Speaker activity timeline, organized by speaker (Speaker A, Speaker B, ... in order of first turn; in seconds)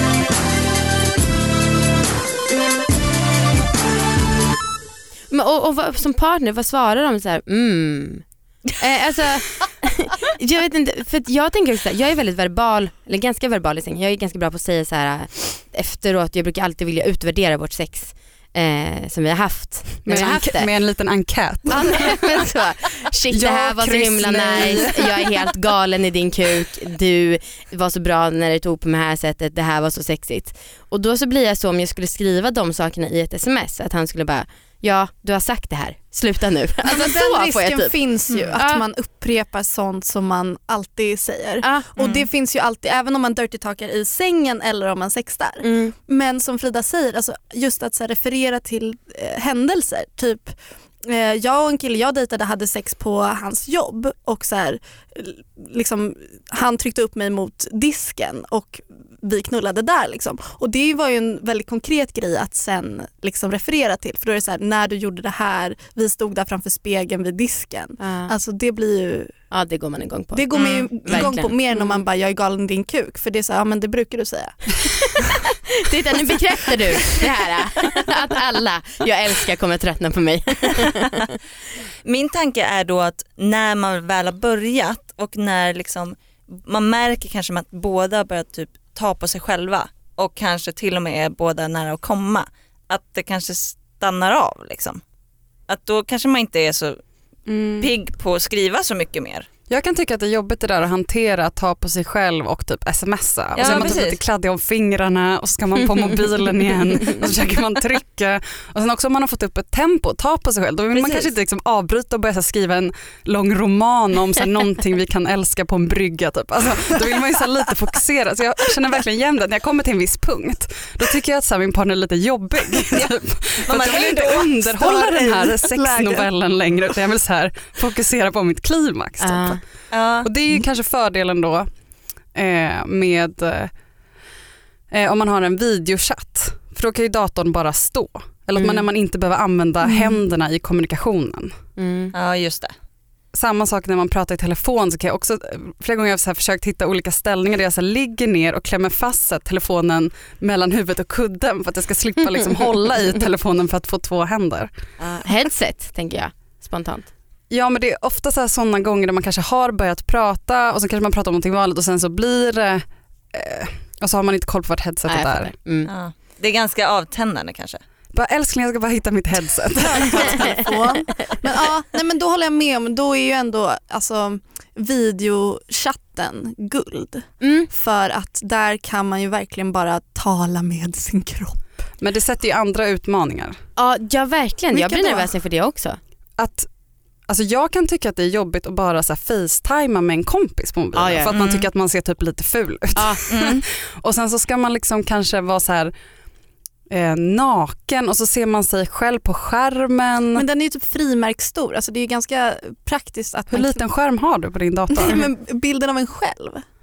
Speaker A: 5.3-8.2, 8.8-20.7, 21.7-37.9, 38.5-38.8, 41.6-41.9, 45.6-45.9, 68.0-68.3, 69.5-70.5, 71.0-72.0, 75.1-81.4, 129.2-129.6, 138.6-138.8, 141.8-142.1, 155.2-157.1, 165.1-165.9, 177.4-177.7, 183.8-186.0, 190.9-191.4, 192.9-193.2
Speaker B: 20.1-22.3, 23.3-25.3, 97.5-97.9, 99.7-129.6, 130.2-131.7, 132.3-133.7, 134.9-141.5, 143.3-154.7, 157.5-165.5, 168.1-170.6, 182.0-183.6, 186.4-186.7, 187.3-195.9, 196.9-200.4, 203.5-205.3
Speaker C: 36.8-69.3, 70.3-75.3, 124.6-126.3, 169.8-181.6, 184.7-185.3, 200.3-203.8, 204.9-206.6
Speaker D: 42.0-42.2, 70.5-71.2, 80.8-81.0, 82.0-95.0, 95.7-97.0, 97.8-99.5, 103.5-104.2, 110.9-111.3, 123.6-124.7, 129.9-130.3, 142.1-142.7, 165.9-167.8, 191.3-191.7, 193.3-193.6